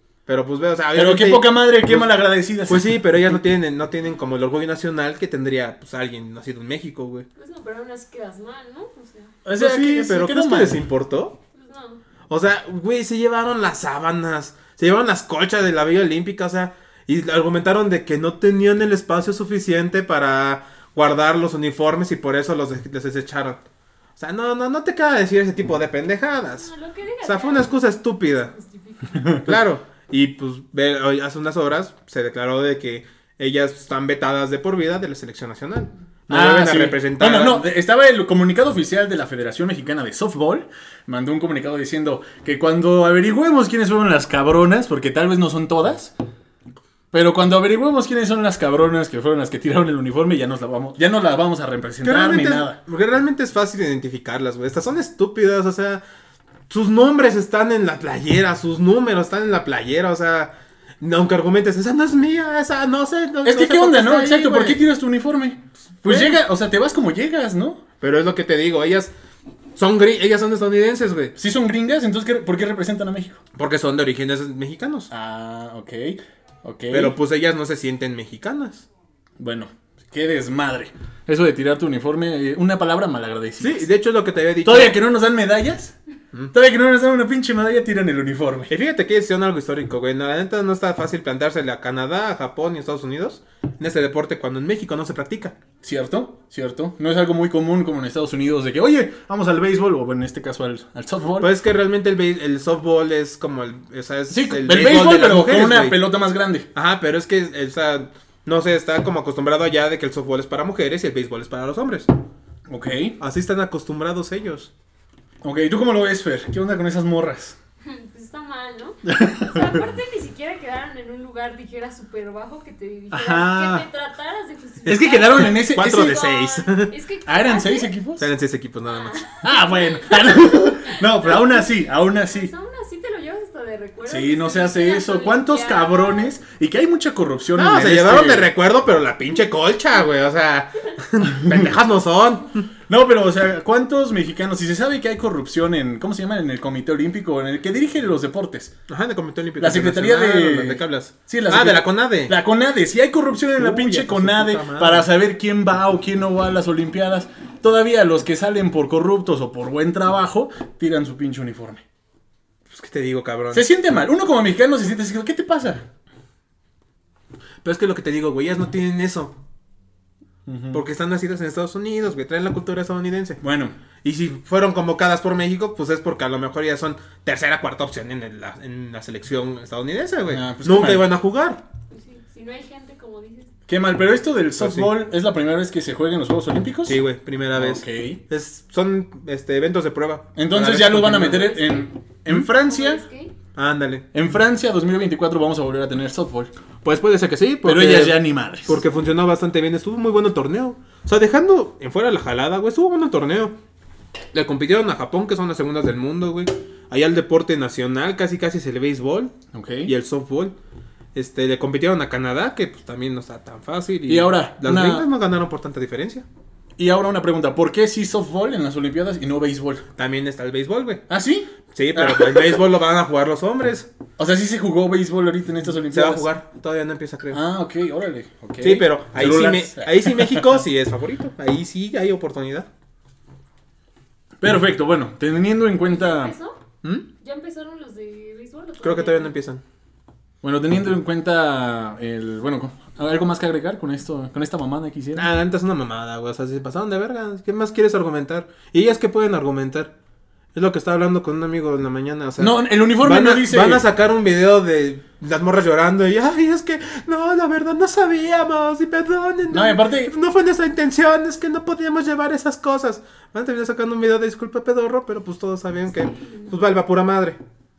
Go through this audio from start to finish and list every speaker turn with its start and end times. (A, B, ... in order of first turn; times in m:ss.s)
0:00.3-0:02.1 A
0:00.9-0:03.4 B
0:02.7-0:07.3 A
0:07.4-0:09.4 C
0:09.4-0:10.8 B
0:09.5-0:11.4 A
0:11.5-0:12.0 C
0:12.3-0:23.6 A
0:24.2-0:26.7 A
0:26.6-0:29.2 C
0:27.2-0:28.5 A
0:29.1-0:29.5 B
0:29.4-0:37.7 A
0:36.3-0:46.1 B
0:47.1-0:52.8 B
0:52.0-0:56.0 A
0:56.7-1:04.8 A
1:03.4-1:07.8 B
1:06.0-1:06.4 A
1:08.0-1:09.1 A
1:09.8-1:11.3 A
1:11.4-1:13.4 B
1:13.6-1:15.1 A
1:15.1-1:17.2 B
1:16.9-1:18.8 A
1:19.4-1:23.9 B
1:23.6-1:25.0 A
1:24.6-1:26.0 B
1:26.5-1:28.7 B
1:28.7-1:35.6 A
1:35.8-1:41.5 B
1:41.4-1:46.0 A
1:44.3-1:46.7 B
1:46.7-1:52.1 A
1:52.7-1:53.2 B
1:53.2-1:54.7 A
1:55.4-1:57.6 B
1:57.8-2:07.9 C
1:59.0-1:59.8 B
2:03.1-2:03.8 B
2:04.8-2:06.9 A
2:04.9-2:06.1 B
2:07.2-2:08.3 B
2:08.2-2:09.3 A
2:08.8-2:16.3 C
2:09.4-2:12.5 B
2:14.1-2:18.5 B
2:17.5-2:22.7 A
2:22.9-2:28.7 B
2:28.9-2:32.4 A
2:29.6-2:41.8 B
2:33.6-2:35.1 A
2:42.7-2:43.7 A
2:43.5-2:45.8 B
2:47.6-2:49.4 A
2:50.4-2:50.8 B
2:50.7-2:53.4 A
2:53.4-2:53.7 B
2:54.0-3:01.6 A
3:00.3-3:01.1 B
3:01.9-3:03.5 C
3:03.7-3:07.0 B
3:04.6-3:04.9 A
3:06.8-3:11.4 A
3:07.5-3:08.2 B
3:10.4-3:13.0 B
3:11.1-3:13.3 C
3:13.5-3:14.0 A
3:14.1-3:16.5 B
3:16.8-3:23.5 A
3:17.6-3:18.8 B
3:24.3-3:29.3 A
3:29.5-3:29.9 B
3:29.8-3:30.6 A
3:31.1-3:36.2 A
3:34.1-3:35.1 B
3:36.8-3:39.8 B
3:40.0-3:41.0 A
3:41.1-3:42.6 B
3:41.7-3:43.9 A
3:44.2-3:46.3 B
3:45.9-3:47.4 A
3:47.3-3:50.5 B
3:48.6-3:52.7 A
3:54.4-3:56.3 B
3:55.8-3:56.6 C
3:57.2-3:59.3 C
3:58.8-3:59.6 A
4:00.4-4:05.3 B
4:05.2-4:09.9 A
4:10.5-4:27.4 A
4:12.4-4:13.8 B
4:19.5-4:20.1 B